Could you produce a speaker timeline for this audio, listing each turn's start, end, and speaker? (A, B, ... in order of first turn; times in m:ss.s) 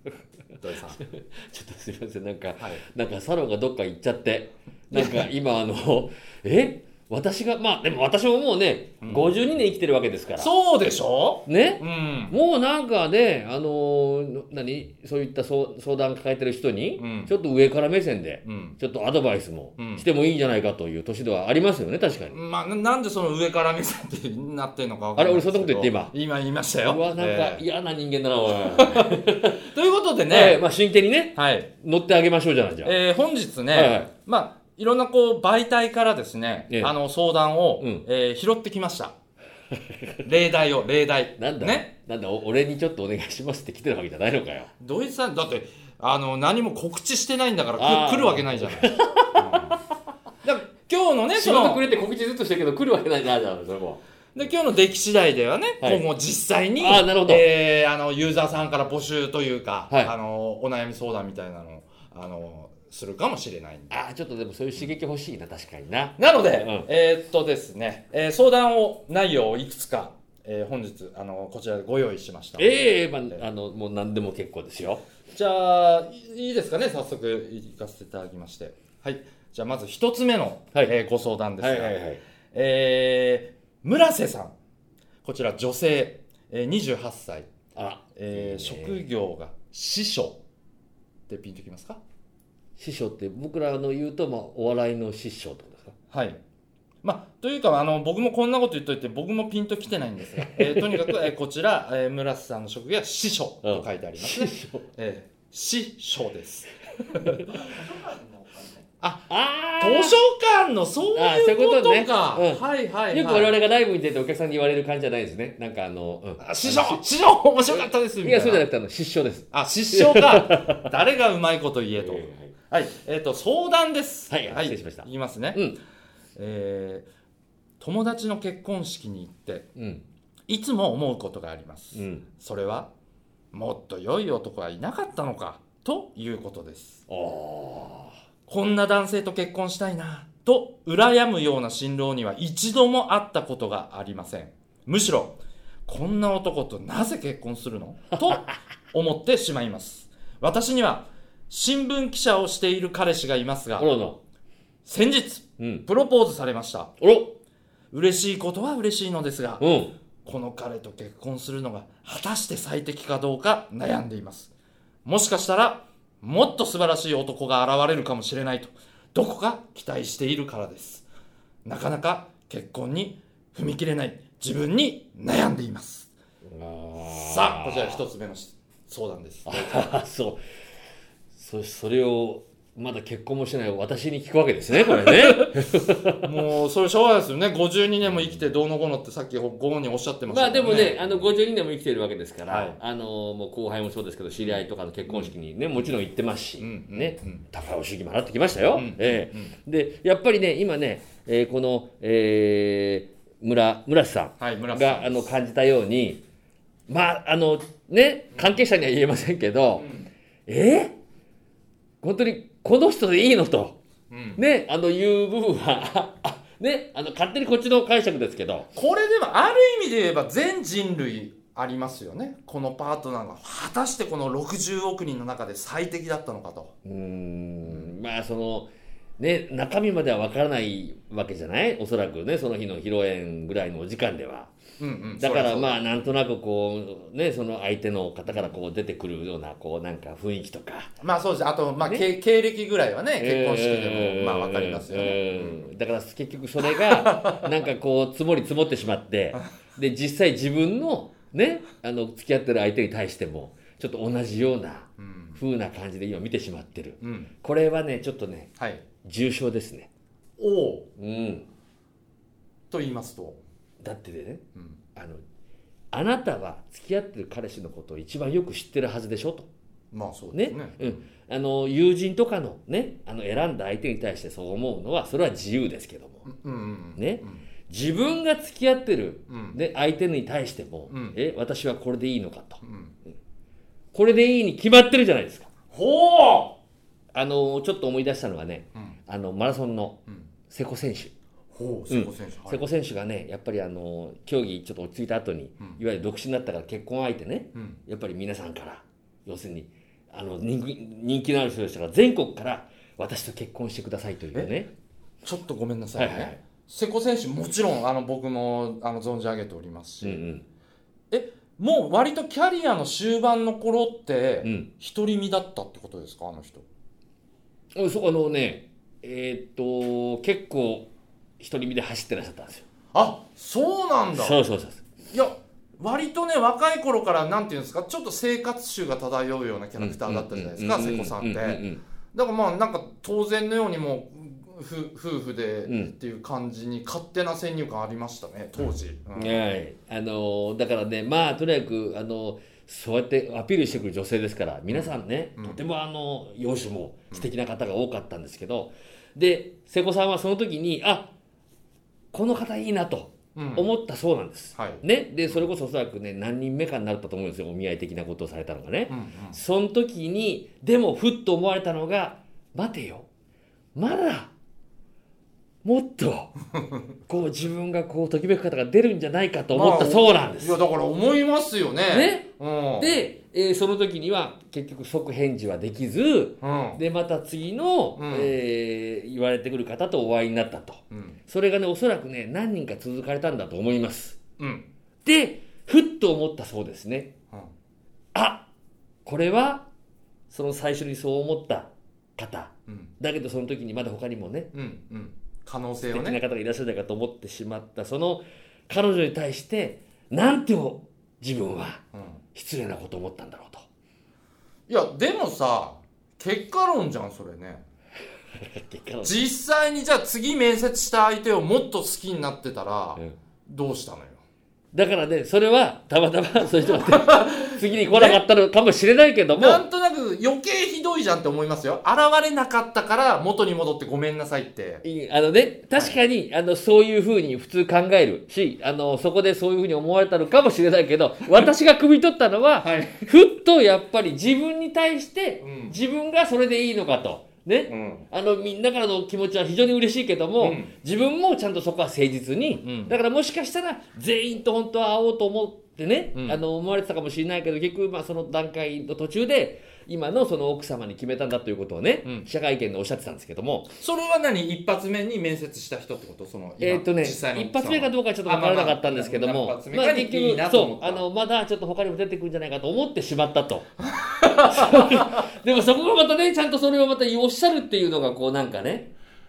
0:00.6-0:01.0 A
0:01.0-0:10.5 B
0:04.9-0:05.3 A
0:09.0-0:09.4 A
0:10.4-0:12.4 A
0:11.5-0:22.4 B
0:17.0-0:17.3 A
0:18.4-0:18.8 A
0:19.8-0:20.1 A
0:22.3-0:27.6 A
0:25.2-0:26.1 B
0:26.8-0:29.6 B
0:28.5-0:30.6 A
0:30.3-0:33.0 B
0:31.4-0:31.7 A
0:32.8-0:39.2 A
0:33.7-0:34.1 B
0:39.7-0:40.2 B
0:40.2-0:41.9 A
0:41.4-0:44.7 B
0:44.8-0:49.8 A
0:47.8-0:49.8 B
0:50.4-0:51.8 A
0:51.4-0:54.0 B
0:54.4-1:04.0 A
0:56.8-0:57.4 B
1:03.9-1:06.9 B
1:06.2-1:13.4 A
1:12.6-1:15.0 B
1:15.3-1:22.0 A
1:21.6-1:22.2 B
1:22.5-1:24.5 A
1:25.2-1:27.5 A
1:27.8-1:29.0 B
1:28.2-1:30.4 A
1:31.3-1:32.0 A
1:32.8-1:36.0 B
1:36.1-1:36.4 A
1:37.0-1:49.3 A
1:40.4-1:41.1 B
1:43.6-1:44.9 B
1:47.1-1:47.7 B
1:49.3-1:50.2 B
1:49.8-1:53.6 A
1:51.1-1:57.0 B
1:56.4-1:58.7 A
1:57.7-2:00.9 B
1:59.5-2:05.6 A
2:02.0-2:02.5 B
2:04.3-2:05.8 B
2:06.4-2:07.1 A
2:07.8-2:09.7 A
2:09.8-2:10.0 B
2:10.5-2:12.9 A
2:12.0-2:12.2 B
2:13.5-2:17.0 A
2:17.1-2:18.1 B
2:18.5-2:33.9 A
2:28.1-2:28.6 B
2:33.8-2:34.2 B
2:34.8-2:36.9 A
2:35.6-2:35.8 B
2:37.0-2:37.3 B
2:37.9-2:39.6 A
2:39.6-2:39.9 B
2:40.2-2:44.5 A
2:45.0-2:51.1 A
2:51.6-2:56.1 A
2:56.4-2:58.0 B
2:57.0-2:59.9 A
2:59.5-3:00.4 B
3:01.3-3:06.3 B
3:04.7-3:05.5 A
3:06.2-3:11.3 A
3:10.3-3:26.2 B
3:12.5-3:12.8 A
3:14.5-3:15.3 A
3:16.6-3:17.4 A
3:18.7-3:19.5 A
3:24.4-3:25.3 A
3:26.9-3:29.9 B
3:29.8-3:30.1 A
3:30.5-3:31.0 B
3:32.0-3:33.8 B
3:34.1-3:34.4 A
3:34.4-3:38.7 B
3:38.7-3:46.7 A
3:46.8-3:54.5 B
3:54.8-3:55.8 A
3:55.2-4:00.9 B
3:58.3-3:58.5 A
4:01.0-4:05.7 A
4:03.2-4:18.5 B
4:06.7-4:07.5 A
4:15.0-4:15.4 A
4:17.0-4:17.3 A
4:18.6-4:18.8 A
4:19.0-4:19.9 B
4:20.4-4:20.9 A
4:21.0-4:21.5 B
4:22.7-4:23.4 A
4:23.8-4:24.4 B
4:25.0-4:25.2 B
4:25.9-4:29.5 B
4:29.9-4:31.0 A
4:30.3-4:36.3 B
4:36.3-4:37.4 A
4:37.0-4:42.6 B
4:39.3-4:39.6 A
4:40.9-4:41.2 A
4:42.6-4:43.0 A
4:43.9-4:45.5 B
4:45.7-4:46.6 A
4:47.1-4:51.1 B
4:51.5-4:52.6 A
4:51.9-5:04.7 B
4:57.6-4:57.8 A
5:05.2-5:10.2 A
5:06.0-5:06.4 B
5:10.0-5:10.5 B
5:11.1-5:16.6 A
5:14.4-5:14.7 B
5:17.8-5:22.6 B
5:22.9-5:24.4 A
5:24.2-5:24.8 B
5:25.1-5:39.4 A
5:29.8-5:31.8 B
5:35.7-5:35.9 B
5:39.2-5:51.1 B
5:44.7-5:45.6 A
5:52.1-6:03.1 B
5:53.4-5:53.7 A
5:54.6-5:55.4 A
5:58.9-5:59.4 A
6:03.8-6:04.3 B
6:05.6-6:06.3 B
6:07.1-6:10.6 B
6:09.5-6:12.9 A
6:11.9-6:12.3 B
6:12.8-6:24.2 B
6:16.4-6:16.8 A
6:18.0-6:18.3 A
6:20.9-6:21.2 A
6:24.4-6:24.7 A
6:25.0-6:27.1 B
6:28.1-6:28.5 B
6:29.0-6:29.7 B
6:30.3-6:34.5 B
6:34.5-6:36.2 A
6:35.9-6:41.8 B
6:41.9-6:42.2 A
6:42.3-6:43.6 B
6:44.7-6:47.6 A
6:48.4-6:49.2 B
6:49.0-6:54.2 A
6:54.7-6:59.6 B
6:56.6-6:58.2 A
6:59.4-7:04.8 A
7:04.8-7:33.8 B
7:12.6-7:13.1 A
7:15.4-7:15.8 A
7:17.7-7:18.1 A
7:20.4-7:20.7 A
7:22.6-7:23.0 A
7:26.1-7:26.4 A
7:33.8-7:41.0 A
7:36.6-7:43.7 B
7:43.8-7:45.2 A
7:44.4-7:48.9 B